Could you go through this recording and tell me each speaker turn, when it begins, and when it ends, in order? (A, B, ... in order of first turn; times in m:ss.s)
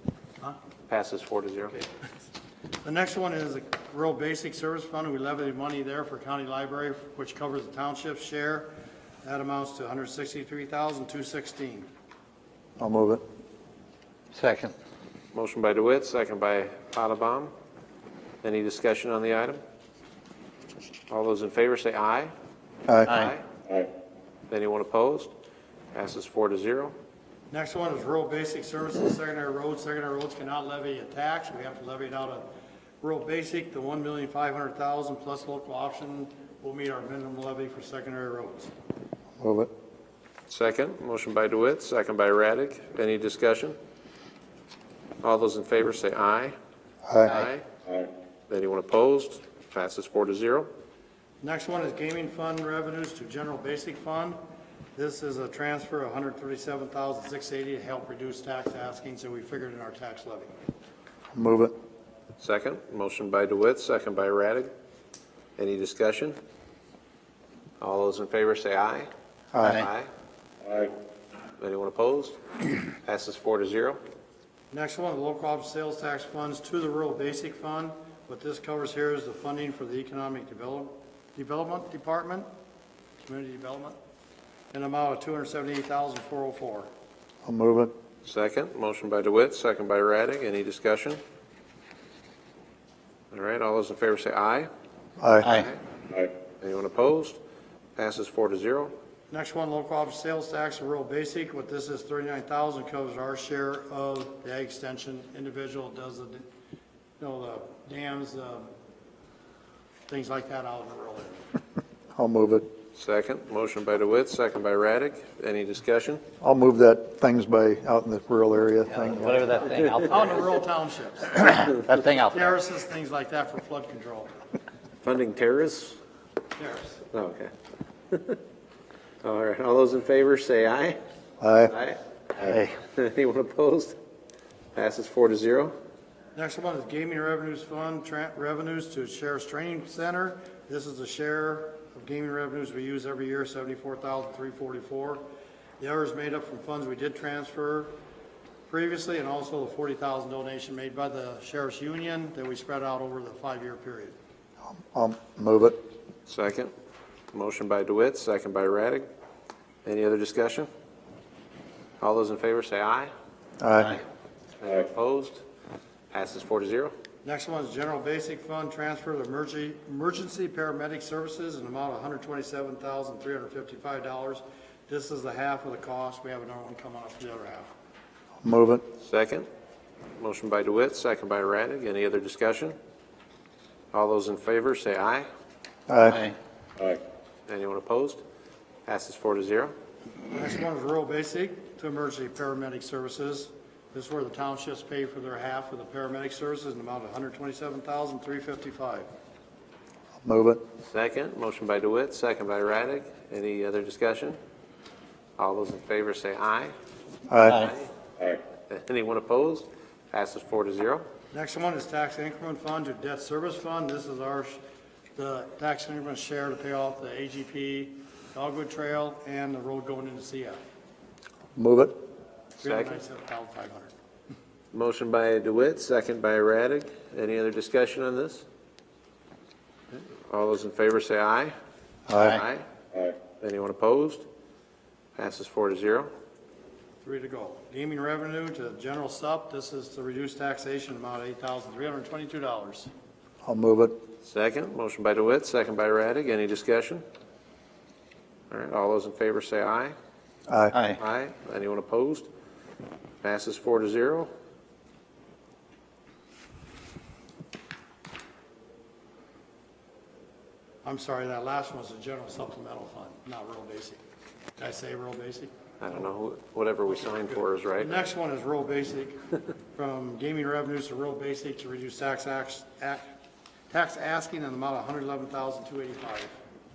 0:00.9-0:01.8 A
0:02.8-0:08.7 B
0:09.2-0:11.9 B
0:12.8-0:13.2 C
0:14.3-0:14.7 D
0:15.3-0:17.5 A
0:18.4-0:19.6 A
0:21.1-0:22.3 A
0:22.9-0:23.1 C
0:23.1-0:23.3 D
0:23.1-0:23.4 A
0:24.5-0:25.3 A
0:25.9-0:27.0 A
0:27.5-0:32.4 B
0:33.0-0:38.7 B
0:39.4-0:39.7 C
0:40.5-0:43.8 A
0:45.2-0:46.6 A
0:47.0-0:47.4 C
0:47.2-0:47.6 A
0:48.5-0:50.7 A
0:51.4-0:54.4 B
0:55.0-1:00.5 B
1:01.3-1:01.7 C
1:02.4-1:04.7 A
1:05.6-1:06.4 A
1:07.8-1:10.1 A
1:09.5-1:09.8 C
1:11.6-1:12.4 A
1:13.0-1:14.0 A
1:14.7-1:22.5 B
1:23.2-1:24.0 B
1:24.7-1:26.9 B
1:27.4-1:27.9 C
1:28.2-1:31.2 A
1:33.3-1:34.7 A
1:35.2-1:35.5 C
1:35.4-1:35.7 D
1:35.4-1:35.8 A
1:36.6-1:37.4 A
1:38.0-1:38.9 A
1:39.3-1:46.4 B
1:47.2-1:48.7 B
1:50.1-1:51.4 B
1:52.2-1:52.7 C
1:53.0-1:56.2 A
1:56.4-1:59.6 C
1:59.0-2:00.4 D
2:00.0-2:01.8 B
2:01.6-2:02.6 D
2:02.3-2:04.3 B
2:05.0-2:06.0 A
2:06.6-2:07.0 B
2:07.1-2:07.5 A
2:08.1-2:08.4 A
2:09.2-2:11.0 A
2:11.4-2:11.7 C
2:11.7-2:14.0 A
2:14.8-2:15.7 A
2:16.4-2:25.2 B
2:25.8-2:27.9 B
2:28.7-2:34.1 B
2:34.6-2:35.8 C
2:36.3-2:36.7 A
2:37.3-2:39.0 A
2:39.8-2:40.7 A
2:42.0-2:43.1 A
2:43.6-2:44.0 C
2:44.6-2:45.4 A
2:46.1-2:46.9 A
2:47.2-2:57.7 B
2:58.4-2:58.8 C
2:59.0-2:59.5 A
3:00.2-3:02.8 A
3:03.9-3:05.3 A
3:05.9-3:06.2 C
3:07.5-3:08.2 A
3:08.8-3:09.7 A
3:10.3-3:19.1 B
3:20.2-3:20.6 C
3:20.8-3:24.4 A
3:25.4-3:26.7 A
3:27.3-3:27.7 C
3:27.6-3:27.9 A
3:28.7-3:31.0 A
3:31.3-3:34.6 B
3:35.2-3:40.6 B
3:41.5-3:41.9 C
3:42.6-3:43.9 B
3:42.6-3:43.0 A
3:44.7-3:48.4 A
3:50.3-3:51.5 A
3:52.1-3:52.4 C
3:52.2-3:52.6 A
3:53.4-3:54.2 A
3:55.2-3:56.1 A
3:57.0-4:02.9 B
4:03.4-4:03.9 C
4:04.2-4:07.0 A
4:08.5-4:09.9 A
4:10.5-4:10.8 C
4:10.7-4:11.0 D
4:11.0-4:12.3 A
4:13.2-4:14.3 A
4:20.8-4:24.0 B
4:24.6-4:25.5 B
4:25.8-4:28.0 A
4:26.9-4:29.2 B
4:29.7-4:33.2 B
4:33.7-4:36.3 B